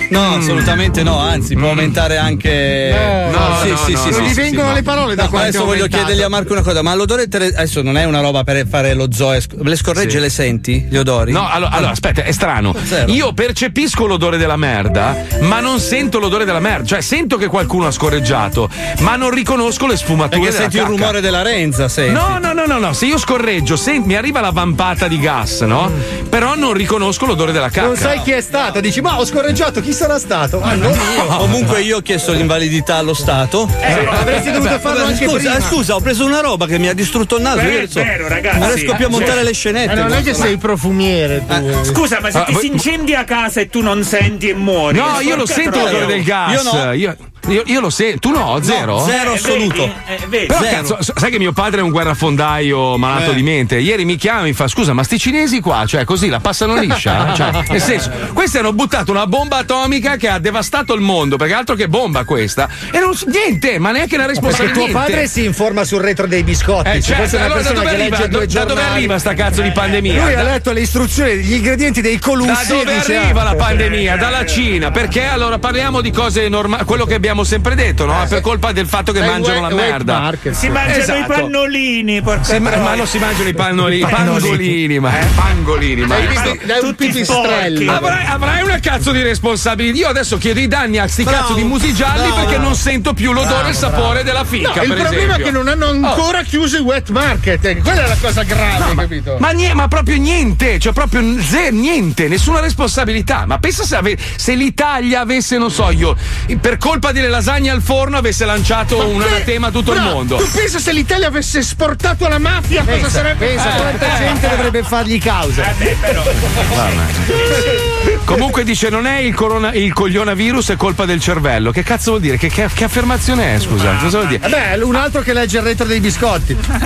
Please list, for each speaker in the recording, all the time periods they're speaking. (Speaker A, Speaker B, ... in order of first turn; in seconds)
Speaker A: 0.1-4.5, 5.2-11.9, 12.8-13.2, 20.3-22.4, 31.3-34.1, 34.6-40.6, 45.2-46.9, 48.6-49.9, 50.5-50.9, 53.1-53.4, 91.2-92.8, 93.4-94.1
Speaker B: 0.1-0.9, 1.5-2.3, 3.2-4.9, 9.9-10.2, 11.3-21.2, 22.1-28.3, 31.1-31.8, 42.3-42.8, 44.9-49.2, 50.5-65.3, 66.8-70.5, 72.4-80.3, 80.8-81.5, 82.5-86.6, 87.9-96.3, 98.8-110.5, 113.7-114.5, 116.7-117.6, 118.2-124.5
Speaker C: 2.9-4.8, 39.9-42.0, 79.2-80.8, 86.1-88.1, 94.6-99.4, 109.0-114.2
Speaker D: 3.2-6.3, 27.8-31.4, 33.8-35.8, 64.4-69.2, 70.1-73.5, 84.1-84.6, 112.8-115.7, 124.5-126.6
Speaker E: 33.8-34.4, 37.5-39.5, 41.8-46.3, 49.0-50.8, 73.6-74.7, 80.5-83.1, 84.0-84.5, 86.1-88.2, 115.6-116.4, 123.8-124.4